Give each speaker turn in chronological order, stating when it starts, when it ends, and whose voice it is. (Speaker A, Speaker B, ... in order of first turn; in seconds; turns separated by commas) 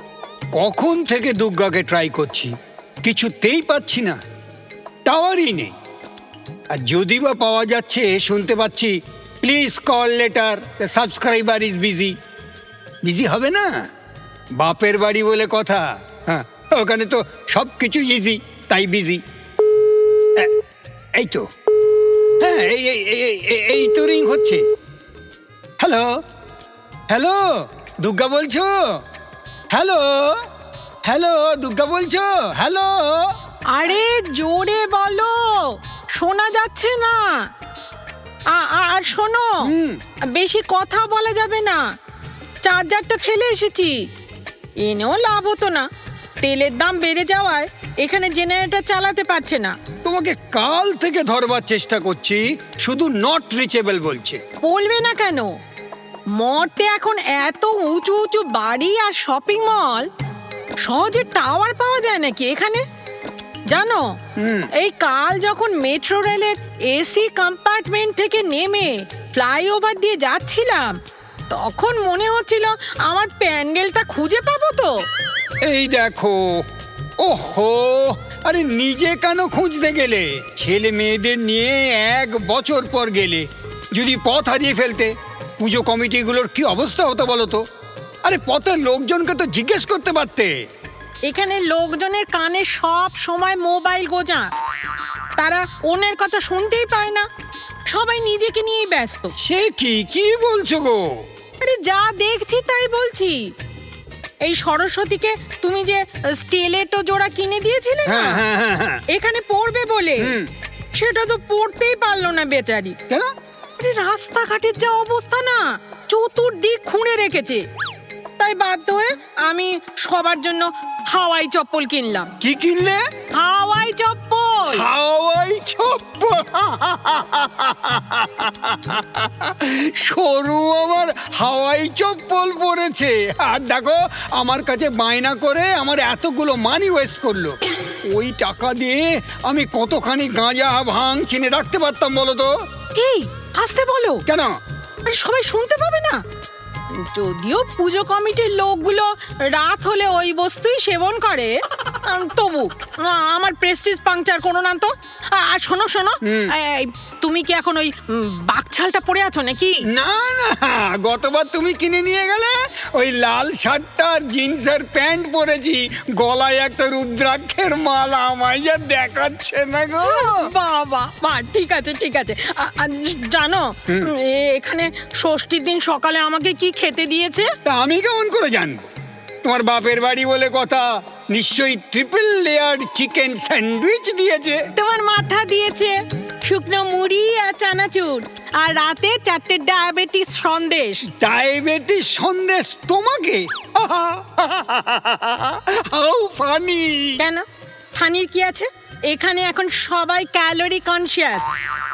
Speaker A: 0.5-4.2, Speaker A: 5.1-5.8, Speaker A: 6.7-12.2, Speaker A: 13.0-13.9, Speaker A: 14.6-19.2, Speaker A: 21.2-21.5, Speaker A: 22.4-24.6, Speaker A: 25.8-26.2, Speaker A: 27.1-29.0, Speaker A: 29.7-30.4, Speaker A: 31.1-33.3, Speaker B: 33.7-37.5, Speaker B: 38.5-39.7, Speaker A: 39.6-40.0, Speaker B: 40.4-41.8, Speaker B: 42.6-44.0, Speaker B: 44.8-45.9, Speaker B: 46.4-49.8, Speaker A: 50.0-54.4, Speaker B: 54.6-55.5, Speaker B: 56.4-60.1, Speaker B: 60.8-62.8, Speaker B: 63.7-64.1, Speaker A: 64.4-64.7, Speaker B: 64.8-71.0, Speaker B: 71.5-75.0, Speaker A: 75.7-76.4, Speaker A: 77.2-87.6, Speaker A: 88.2-90.6, Speaker B: 91.3-94.5, Speaker B: 95.4-97.3, Speaker B: 97.9-99.3, Speaker A: 99.4-101.0, Speaker B: 101.6-103.4, Speaker B: 104.5-108.4, Speaker A: 108.0-109.0, Speaker B: 109.1-110.4, Speaker A: 110.2-110.5, Speaker B: 111.0-113.0, Speaker B: 113.8-117.6, Speaker B: 118.4-122.3, Speaker A: 122.4-123.0, Speaker B: 123.3-124.8, Speaker A: 124.7-142.5, Speaker B: 142.9-144.2, Speaker A: 144.3-144.5, Speaker B: 145.1-146.2, Speaker B: 146.9-159.8, Speaker A: 156.2-156.5, Speaker A: 159.9-170.5, Speaker B: 170.0-177.5, Speaker A: 177.7-178.8, Speaker A: 179.4-184.7, Speaker B: 184.8-191.1, Speaker A: 191.2-197.2, Speaker B: 197.2-197.4, Speaker B: 197.9-201.5